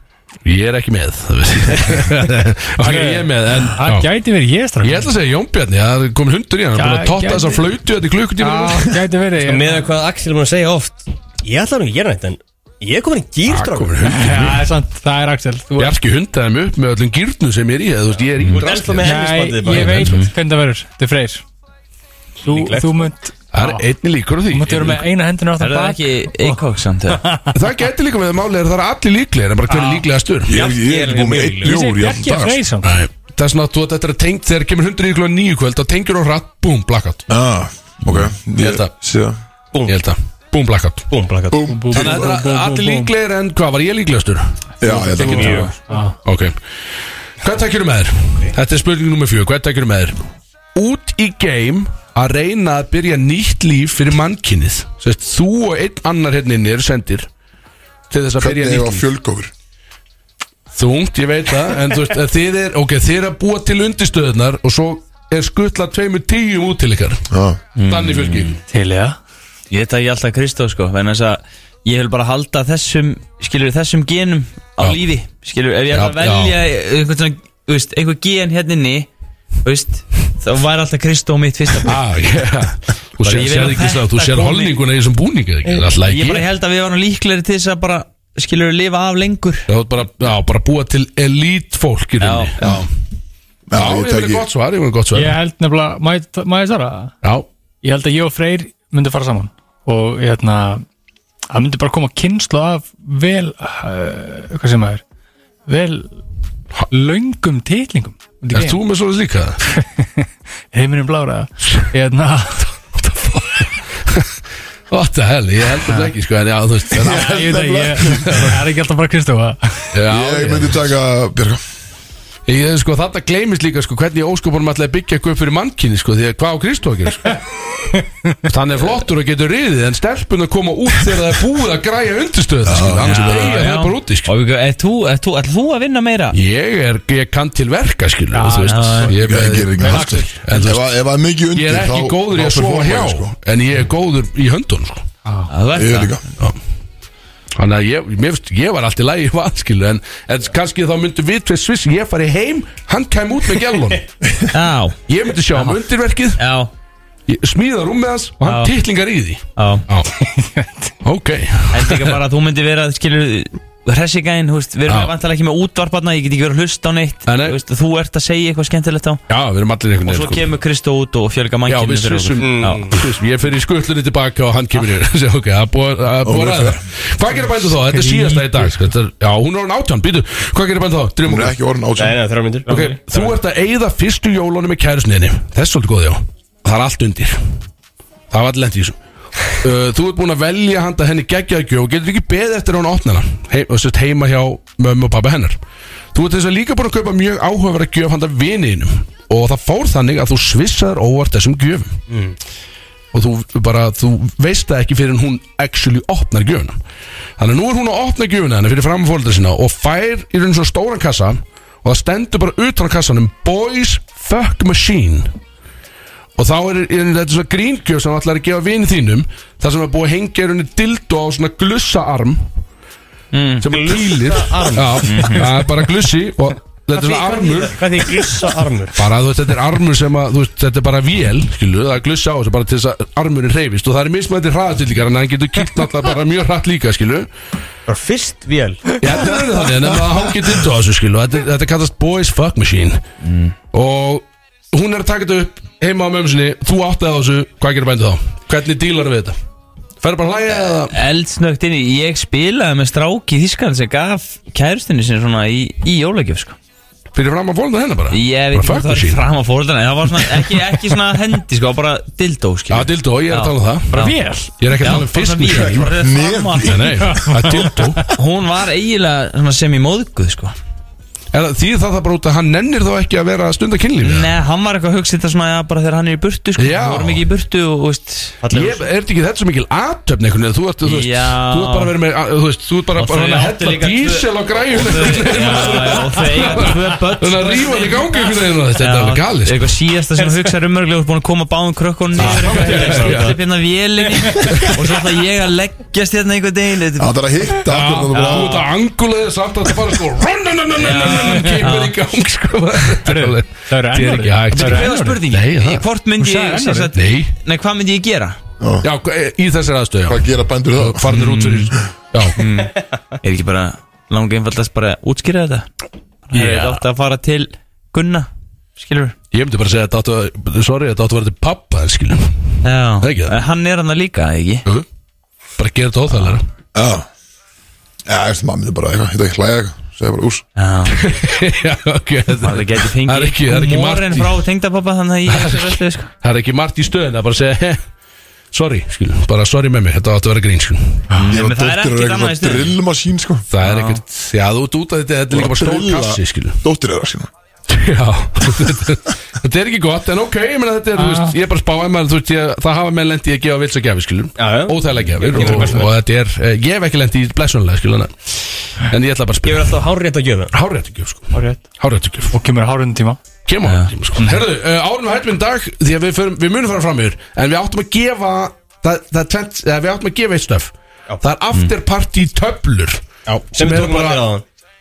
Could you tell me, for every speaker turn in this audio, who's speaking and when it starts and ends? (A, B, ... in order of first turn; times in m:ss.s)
0:00.4-0:04.1 A
0:02.8-0:05.1 B
0:04.8-0:09.0 A
0:06.8-0:07.7 B
0:08.4-0:09.9 B
0:09.4-0:14.1 C
0:13.4-0:14.7 A
0:14.0-0:15.9 B
0:15.8-0:20.3 A
0:18.5-0:20.1 C
0:19.0-0:21.4 B
0:22.4-0:22.9 C
0:22.4-0:23.8 B
0:23.5-0:25.0 A
0:24.5-0:27.5 B
0:25.6-0:27.2 D
0:27.5-0:30.6 A
0:30.4-0:32.6 E
0:30.5-0:31.8 C
0:31.6-0:32.9 B
0:32.8-0:37.2 A
0:37.3-0:39.4 E
0:38.1-0:38.9 A
0:39.7-0:40.0 C
0:39.8-0:41.1 A
0:41.1-0:42.0 C
0:41.5-0:42.1 E
0:41.7-0:43.1 B
0:41.9-0:44.5 A
0:44.8-0:45.7 E
0:44.8-0:46.2 B
0:45.2-0:45.7 C
0:46.2-0:46.6 A
0:47.4-0:50.2 A
0:50.7-0:57.3 A
0:58.1-0:59.0 A
0:58.4-0:59.5 E
1:00.7-1:07.2 A
1:07.3-1:07.6 E
1:07.8-1:08.6 D
1:07.8-1:08.6 A
1:08.7-1:09.2 B
1:09.7-1:19.1 D
1:15.9-1:16.6 A
1:19.6-1:22.0 D
1:21.8-1:26.5 A
1:23.2-1:24.8 D
1:25.6-1:29.7 D
1:29.7-1:32.8 A
1:32.2-1:32.5 D
1:32.6-1:32.9 E
1:33.7-1:34.4 E
1:33.7-1:35.4 A
1:35.1-1:37.1 B
1:37.8-1:40.8 B
1:41.5-1:45.0 B
1:45.7-1:46.1 B
1:46.9-1:48.8 B
1:48.5-1:49.6 A
1:49.7-1:52.7 B
1:52.9-1:54.3 A
1:54.9-1:57.6 A
1:57.0-1:58.6 E
1:57.0-1:59.9 B
1:59.9-2:00.8 A
2:00.1-2:01.6 E
2:02.5-2:07.4 A
2:08.4-2:14.3 A
2:12.6-2:13.6 E
2:13.0-2:16.4 D
2:16.3-2:20.9 A
2:18.3-2:19.1 B
2:18.7-2:19.1 D
2:19.1-2:23.3 E
2:19.8-2:20.3 B
2:21.5-2:25.0 A
2:25.5-2:26.2 D
2:25.7-2:26.2 E
2:27.6-2:34.0 A
2:34.5-2:35.0 D
2:35.1-2:36.4 A
2:36.4-2:36.7 D
2:37.3-2:40.1 A
2:38.4-2:38.7 D
2:39.6-2:39.8 D
2:40.2-2:40.9 B
2:41.0-2:42.2 A
2:41.7-2:49.2 D
2:44.9-2:45.1 A
2:47.2-2:47.6 A
2:49.3-2:50.5 A
2:50.0-2:52.9 D
2:51.7-3:01.5 A
2:52.4-2:53.0 C
2:56.2-2:56.8 E
2:58.0-2:58.7 B
3:01.2-3:02.2 E
3:02.0-3:03.4 C
3:02.6-3:07.4 A
3:08.3-3:09.0 A
3:09.5-3:15.6 A
3:16.1-3:22.0 A
3:22.1-3:22.4 C
3:23.1-3:26.8 A
3:27.4-3:35.3 A
3:36.4-3:42.4 A
3:43.3-3:43.7 D
3:43.6-3:48.0 A
3:43.7-3:45.4 C
3:45.0-3:45.5 D
3:46.9-3:49.0 C
3:48.9-3:57.3 A
3:57.9-3:58.8 C
3:59.0-4:03.0 A
4:03.2-4:03.5 D
4:03.7-4:09.4 A
4:10.0-4:10.9 A
4:10.9-4:16.6 D
4:17.1-4:19.2 A
4:18.1-4:24.2 D
4:22.7-4:24.0 A
4:23.9-4:24.5 B
4:24.6-4:26.0 A
4:24.8-4:27.2 D
4:25.6-4:27.4 E
4:26.6-4:28.0 A
4:27.2-4:27.9 B
4:28.1-4:30.5 D
4:31.3-4:34.3 A
4:34.0-4:38.4 D
4:36.6-4:37.3 A
4:38.4-4:38.8 C
4:38.5-4:49.7 A
4:40.8-4:41.9 D
4:43.0-4:57.2 D
4:50.2-4:50.5 C
4:52.2-4:53.3 C
4:52.2-4:53.4 A
4:54.3-4:54.8 A
4:57.0-4:58.7 E
4:57.6-5:05.8 A
5:00.8-5:01.9 D
5:01.2-5:01.6 B
5:03.0-5:05.2 B
5:04.5-5:08.4 D
5:06.2-5:06.9 B
5:06.9-5:07.3 A
5:08.6-5:08.9 E
5:08.8-5:12.4 A
5:10.1-5:11.0 E
5:11.1-5:11.7 D
5:12.4-5:15.7 D
5:16.3-5:19.1 D
5:16.3-5:16.8 A
5:19.3-5:22.3 A
5:22.6-5:24.6 D
5:23.0-5:23.4 A
5:25.6-5:26.4 A
5:26.7-5:27.1 E
5:28.1-5:30.4 E
5:30.6-5:31.0 D
5:30.9-5:34.4 A
5:32.3-5:36.1 D
5:35.3-5:37.8 A
5:38.5-5:41.0 A
5:41.1-5:42.8 D
5:41.3-5:43.4 E
5:43.5-5:46.6 A
5:43.6-5:44.0 D
5:45.3-5:47.3 E
5:47.7-5:58.1 A
5:51.0-5:51.4 B
5:54.4-5:55.9 C
5:58.8-5:59.8 A
5:59.4-6:00.5 C
6:00.5-6:02.3 A
6:02.3-6:03.2 B
6:03.4-6:13.0 A
6:03.6-6:03.9 D
6:13.2-6:14.4 C
6:13.6-6:14.3 A